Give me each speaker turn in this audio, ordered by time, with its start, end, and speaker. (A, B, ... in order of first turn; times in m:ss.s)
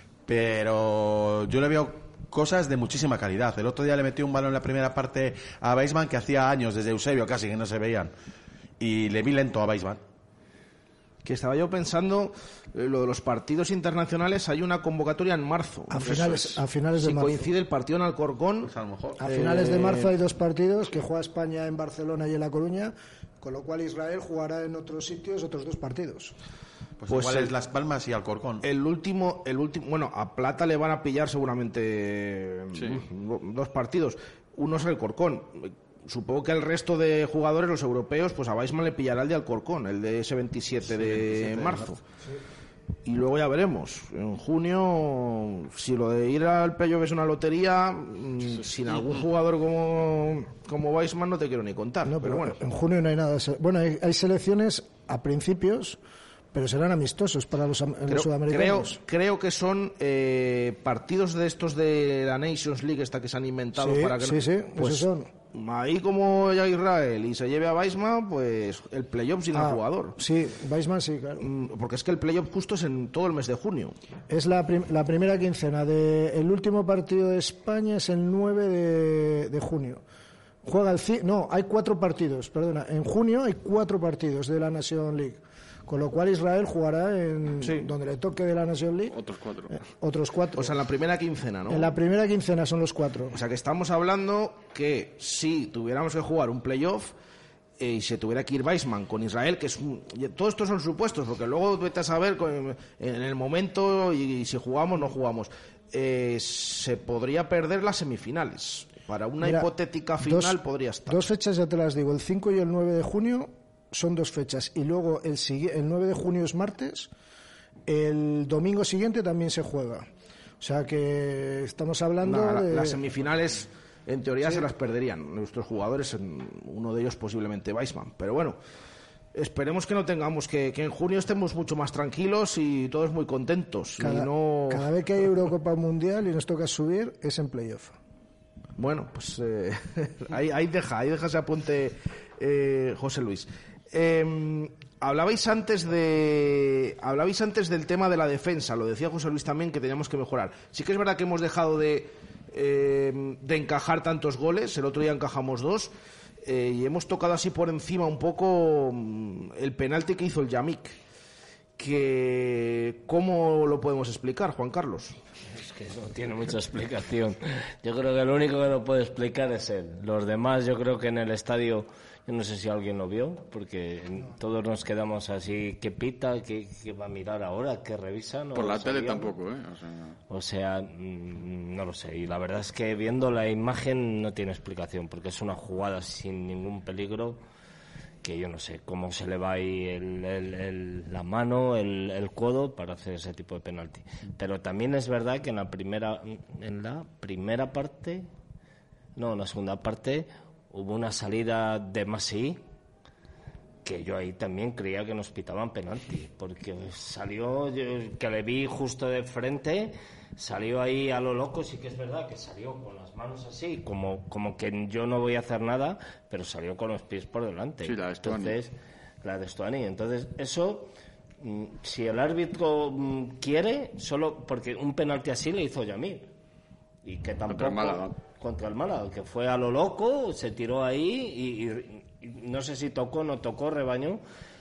0:00.3-0:08.1 A
0:08.8-0:10.0 A
0:11.2-0:16.4 B
0:15.9-0:17.5 C
0:17.0-0:20.1 B
0:18.7-0:19.2 A
0:19.2-0:26.4 C
0:27.0-0:28.7 A
0:27.1-0:27.5 B
0:28.6-0:42.0 B
0:32.7-0:33.0 D
0:41.0-0:41.8 A
0:43.1-0:52.6 B
0:52.0-0:56.0 C
0:56.5-0:59.0 C
0:58.1-1:10.2 B
1:03.8-1:05.3 C
1:09.5-1:11.5 C
1:11.4-1:14.0 B
1:14.3-1:20.0 C
1:20.6-1:29.2 C
1:27.6-1:27.9 B
1:29.1-1:29.8 D
1:29.7-1:30.8 C
1:30.6-1:31.9 B
1:31.7-1:33.4 C
1:33.3-1:37.1 B
1:37.8-1:51.2 B
1:49.4-1:57.1 C
1:57.9-2:00.1 C
2:00.6-2:03.0 C
2:02.2-2:08.6 B
2:09.3-2:14.9 B
2:14.0-2:18.0 C
2:18.8-2:35.9 B
2:36.4-2:41.0 B
2:41.8-2:45.2 B
2:45.5-2:59.3 E
2:58.6-3:00.2 D
3:00.3-3:07.4 E
3:08.2-3:18.3 E
3:19.2-3:22.6 E
3:23.8-3:38.7 E
3:37.8-3:38.6 D
3:39.2-3:46.3 E
3:47.0-3:54.2 E
3:47.5-3:48.2 D